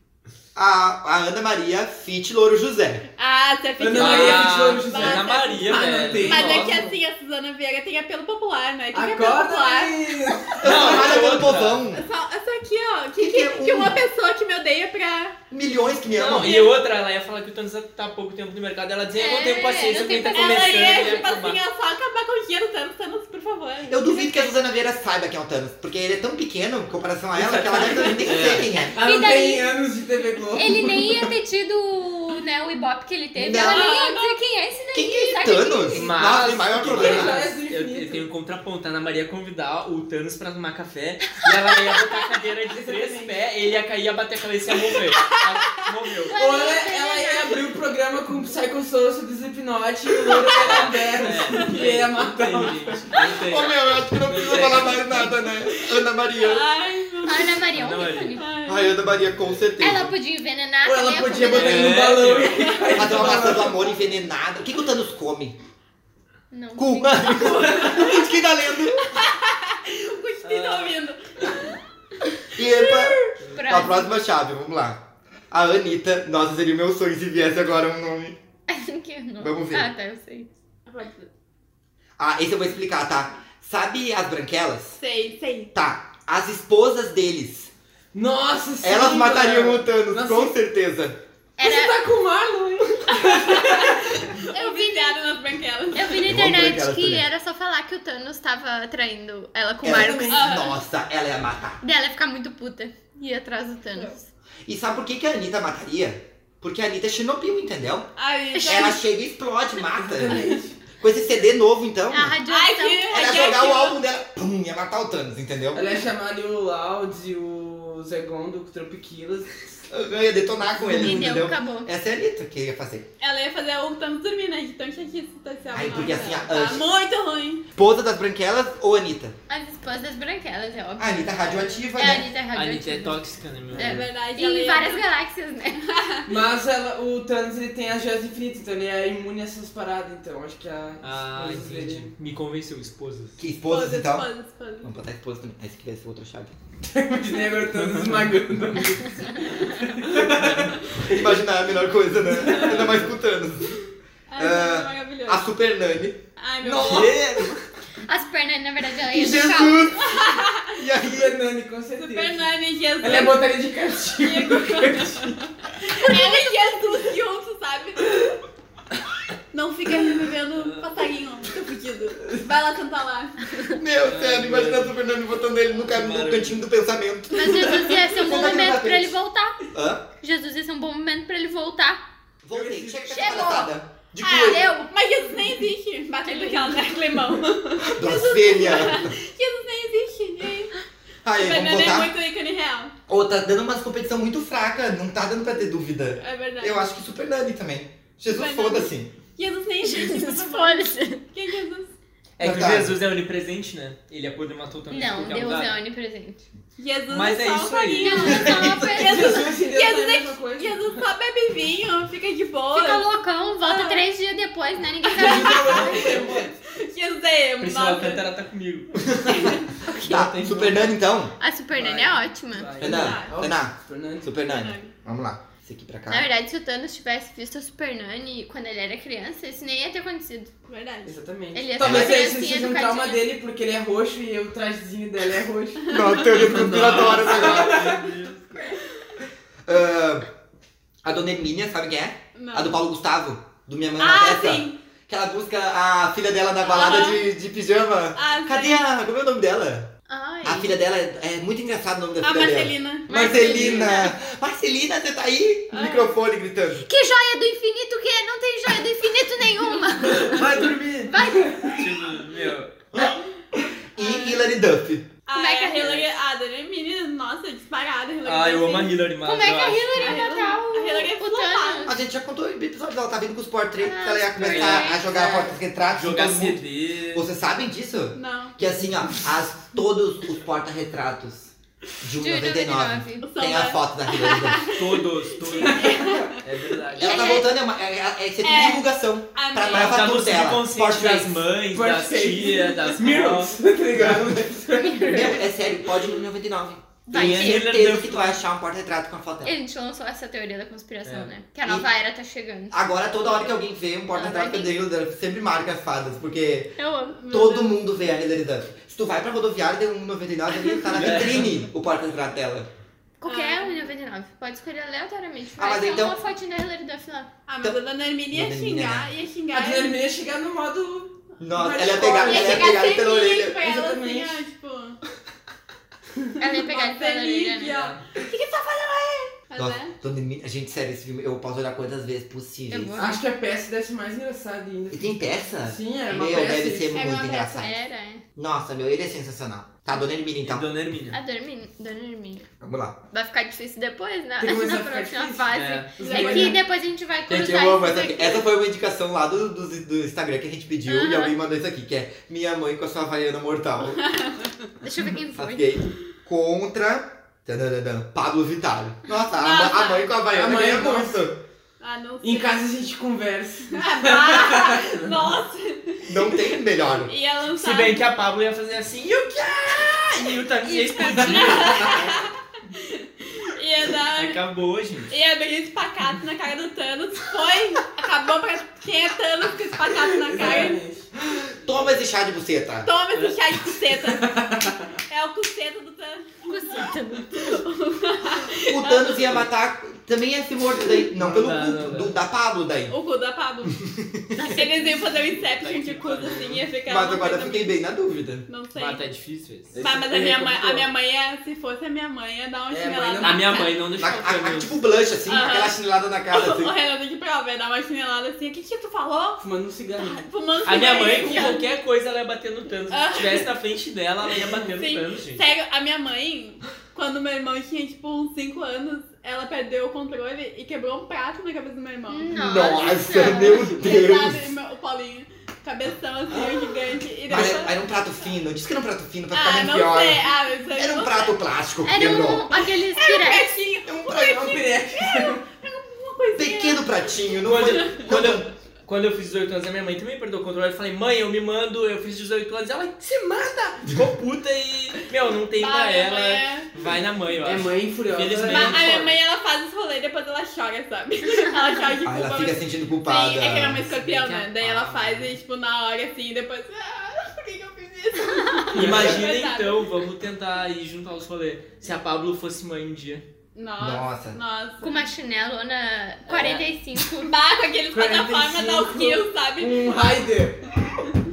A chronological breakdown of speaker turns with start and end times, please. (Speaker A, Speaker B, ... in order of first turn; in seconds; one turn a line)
Speaker A: 0.5-3.0
Speaker B: 3.2-10.6
Speaker C: 3.8-6.9
Speaker D: 3.9-6.9
Speaker C: 8.9-11.2
Speaker A: 10.6-12.0
Speaker D: 10.6-11.8
Speaker B: 11.9-15.4
Speaker A: 13.2-14.0
Speaker A: 15.5-16.6
Speaker D: 16.1-21.6
Speaker B: 16.4-16.7
Speaker E: 19.1-21.2
Speaker B: 20.3-24.5
Speaker A: 23.9-29.0
Speaker C: 27.3-31.3
Speaker D: 28.2-28.7
Speaker E: 28.9-29.7
Speaker E: 30.5-36.3
Speaker A: 33.4-34.0
Speaker B: 33.6-34.4
Speaker A: 34.9-37.5
Speaker D: 35.9-46.3
Speaker C: 36.8-38.2
Speaker C: 42.7-43.4
Speaker E: 46.3-47.7
Speaker C: 46.3-53.1
Speaker D: 50.6-53.7
Speaker A: 53.5-56.6
Speaker D: 54.2-55.3
Speaker B: 55.7-57.7
Speaker E: 57.2-58.6
Speaker D: 57.7-58.4
Speaker B: 58.4-58.9
Speaker A: 58.7-60.1
Speaker D: 59.1-59.4
Speaker E: 59.8-62.1
Speaker C: 60.8-63.9
Speaker D: 61.4-62.7
Speaker B: 62.6-62.9
Speaker A: 62.9-65.5
Speaker E: 66.5-68.2
Speaker A: 66.8-69.2
Speaker B: 67.8-68.1
Speaker B: 69.1-71.8
Speaker D: 70.4-71.0
Speaker A: 72.5-75.0
Speaker B: 72.6-73.3
Speaker E: 73.5-74.1
Speaker A: 75.5-78.4
Speaker E: 78.7-80.5
Speaker A: 79.4-79.9
Speaker B: 80.9-81.3
Speaker A: 82.2-85.0
Speaker B: 85.0-85.7
Speaker A: 85.7-87.7
Speaker C: 88.1-90.5
Speaker A: 88.8-91.2
Speaker E: 91.6-92.0
Speaker C: 91.6-94.2
Speaker B: 93.2-96.2
Speaker E: 94.5-95.2
Speaker E: 95.9-100.5
Speaker A: 96.2-97.2
Speaker A: 99.8-101.8
Speaker C: 99.8-100.6
Speaker B: 100.3-100.8
Speaker E: 101.8-104.3
Speaker A: 104.7-108.1
Speaker B: 108.2-109.0
Speaker E: 108.5-108.9
Speaker A: 108.7-110.4
Speaker C: 109.9-110.8
Speaker A: 111.0-112.4
Speaker E: 112.1-113.7
Speaker B: 112.5-114.0
Speaker A: 113.1-115.8
Speaker C: 115.7-119.7
Speaker A: 119.9-123.1
Speaker C: 120.8-121.4
Speaker E: 120.9-121.9
Speaker B: 123.2-127.6
Speaker A: 125.7-126.8
Speaker A: 127.7-129.3
Speaker E: 129.5-133.2
Speaker A: 131.0-132.3
Speaker D: 132.5-134.0
Speaker E: 133.7-135.8
Speaker B: 133.8-135.1
Speaker B: 135.8-136.3
Speaker C: 136.2-142.1
Speaker D: 141.0-143.4
Speaker A: 143.4-144.3
Speaker B: 143.7-144.9
Speaker A: 144.8-146.5
Speaker C: 146.8-151.3
Speaker B: 147.3-147.6
Speaker D: 147.7-148.4
Speaker E: 149.0-149.6
Speaker D: 150.1-150.7
Speaker A: 151.0-153.8
Speaker C: 152.4-153.0
Speaker B: 154.3-155.5
Speaker A: 154.4-157.5
Speaker B: 156.4-157.2
Speaker D: 156.8-157.6
Speaker E: 158.1-159.9
Speaker A: 159.1-161.3
Speaker B: 160.0-160.7
Speaker C: 161.0-165.4
Speaker B: 162.0-163.5
Speaker B: 164.2-168.3
Speaker B: 169.5-173.4
Speaker D: 170.5-170.9
Speaker A: 173.7-179.2
Speaker D: 174.0-175.0
Speaker D: 175.8-176.7
Speaker E: 177.3-179.6
Speaker A: 179.7-180.1
Speaker E: 180.2-182.0
Speaker A: 182.4-184.8
Speaker C: 182.5-183.6
Speaker E: 183.1-183.7
Speaker B: 184.2-190.7
Speaker E: 184.4-184.9
Speaker E: 186.2-186.9
Speaker A: 187.8-189.2
Speaker A: 191.2-192.1
Speaker B: 191.4-192.9
Speaker A: 193.1-199.1
Speaker B: 196.2-196.9
Speaker B: 198.3-201.9
Speaker E: 199.8-201.2
Speaker D: 202.4-205.7
Speaker A: 202.4-202.9
Speaker E: 204.9-206.4
Speaker B: 206.8-213.1
Speaker D: 207.1-208.4
Speaker E: 208.0-209.5
Speaker A: 208.2-208.9
Speaker C: 208.9-211.0
Speaker E: 212.7-216.3
Speaker B: 213.6-214.0
Speaker B: 215.1-218.2
Speaker C: 215.1-216.6
Speaker D: 217.6-219.1
Speaker A: 219.1-221.3
Speaker B: 219.3-219.6
Speaker E: 219.9-220.3
Speaker D: 219.9-220.9
Speaker E: 221.4-222.9
Speaker C: 221.7-224.3
Speaker A: 222.8-226.3
Speaker B: 222.8-223.3
Speaker B: 224.4-224.9
Speaker E: 226.1-230.5
Speaker B: 230.7-231.1
Speaker C: 231.0-238.1
Speaker E: 231.5-233.2
Speaker A: 231.8-232.2
Speaker B: 235.9-236.2
Speaker A: 235.9-238.0
Speaker D: 236.3-238.7
Speaker A: 239.7-240.3
Speaker A: 241.0-249.9
Speaker B: 242.3-242.8
Speaker B: 244.0-244.8
Speaker B: 246.6-247.3
Speaker B: 248.2-248.8
Speaker B: 250.1-250.7
Speaker A: 250.4-256.9
Speaker B: 252.2-254.1
Speaker E: 253.1-254.1
Speaker B: 255.7-256.1
Speaker E: 256.8-261.8
Speaker D: 260.2-261.1
Speaker A: 260.3-261.1
Speaker D: 261.7-262.7
Speaker A: 263.9-265.1
Speaker B: 265.3-268.9
Speaker E: 265.3-266.0
Speaker D: 265.8-266.1
Speaker D: 268.2-270.1
Speaker E: 269.2-272.0
Speaker B: 270.0-271.9
Speaker A: 271.8-284.7
Speaker E: 273.8-275.2
Speaker D: 274.4-274.9
Speaker D: 275.9-277.2
Speaker B: 278.1-278.5
Speaker E: 282.2-283.3
Speaker B: 283.2-286.4
Speaker D: 284.8-287.4
Speaker C: 285.6-286.3
Speaker A: 287.0-291.4
Speaker E: 287.0-287.5
Speaker B: 288.4-290.0
Speaker D: 289.6-293.6
Speaker C: 291.7-295.3
Speaker A: 293.9-299.5
Speaker E: 294.8-295.4
Speaker E: 297.1-297.7
Speaker D: 297.1-298.4
Speaker E: 299.4-302.8
Speaker D: 301.0-301.3
Speaker A: 302.7-306.8
Speaker E: 304.1-304.7
Speaker E: 306.8-307.2
Speaker B: 307.1-307.8
Speaker A: 307.3-312.7
Speaker D: 310.9-311.6
Speaker E: 313.2-317.3
Speaker B: 313.2-313.9
Speaker A: 315.6-316.2
Speaker B: 317.5-320.0
Speaker A: 318.3-319.1
Speaker C: 319.5-322.9
Speaker A: 321.4-323.6
Speaker B: 322.2-325.0
Speaker C: 323.5-324.4
Speaker E: 326.4-327.9
Speaker B: 326.4-329.9
Speaker D: 327.7-328.0
Speaker A: 329.6-333.0
Speaker E: 332.7-333.2
Speaker C: 333.0-335.1
Speaker A: 334.9-337.7
Speaker C: 335.6-337.0
Speaker B: 336.9-337.7
Speaker E: 337.5-338.2
Speaker A: 338.4-340.6
Speaker D: 340.4-341.2
Speaker E: 341.1-342.5
Speaker A: 342.6-343.0
Speaker E: 343.1-348.4
Speaker C: 344.4-346.6
Speaker D: 345.5-346.0
Speaker B: 346.0-346.5
Speaker A: 347.3-354.0
Speaker E: 350.9-351.3
Speaker B: 354.0-354.4
Speaker E: 354.8-355.7
Speaker A: 355.3-361.4
Speaker B: 359.4-360.2
Speaker C: 360.3-361.2
Speaker B: 361.8-362.6
Speaker C: 362.2-365.1
Speaker B: 363.7-368.0
Speaker A: 366.0-367.1
Speaker D: 367.5-372.1
Speaker E: 370.7-371.9
Speaker B: 371.0-374.4
Speaker C: 371.2-371.4
Speaker D: 374.1-375.1
Speaker B: 375.1-380.8
Speaker C: 380.0-381.1
Speaker A: 381.6-382.9
Speaker D: 381.6-382.0
Speaker B: 382.8-389.3
Speaker C: 384.1-384.9
Speaker E: 386.5-387.6
Speaker A: 388.7-392.9
Speaker D: 391.2-392.1
Speaker B: 392.9-393.8
Speaker A: 393.8-394.4
Speaker E: 394.3-394.9
Speaker B: 394.4-397.8
Speaker D: 395.0-396.6
Speaker A: 396.9-398.4
Speaker B: 398.5-399.0
Speaker D: 398.7-399.7
Speaker C: 399.7-400.9
Speaker B: 399.8-403.7
Speaker C: 402.7-403.5
Speaker D: 403.2-404.7
Speaker A: 404.0-406.7
Speaker B: 405.3-405.8
Speaker B: 406.3-409.4
Speaker C: 409.4-411.4
Speaker B: 410.0-411.6
Speaker D: 410.6-415.4
Speaker B: 412.9-413.5
Speaker B: 414.7-427.8
Speaker E: 422.1-423.8
Speaker A: 422.3-424.5
Speaker A: 427.3-432.5
Speaker B: 429.3-431.4
Speaker E: 431.8-433.5
Speaker B: 432.1-436.9
Speaker C: 433.9-435.4
Speaker A: 436.3-438.5
Speaker D: 437.4-449.2
Speaker B: 437.7-438.0
Speaker B: 445.6-446.7
Speaker C: 447.4-448.9
Speaker B: 448.5-459.9
Speaker A: 452.0-453.8
Speaker D: 453.9-455.4
Speaker D: 458.7-463.2
Speaker A: 458.8-459.1
Speaker B: 463.6-465.1
Speaker A: 463.8-464.4
Speaker E: 464.8-467.3
Speaker D: 466.3-466.6
Speaker B: 467.2-470.3
Speaker C: 467.9-470.7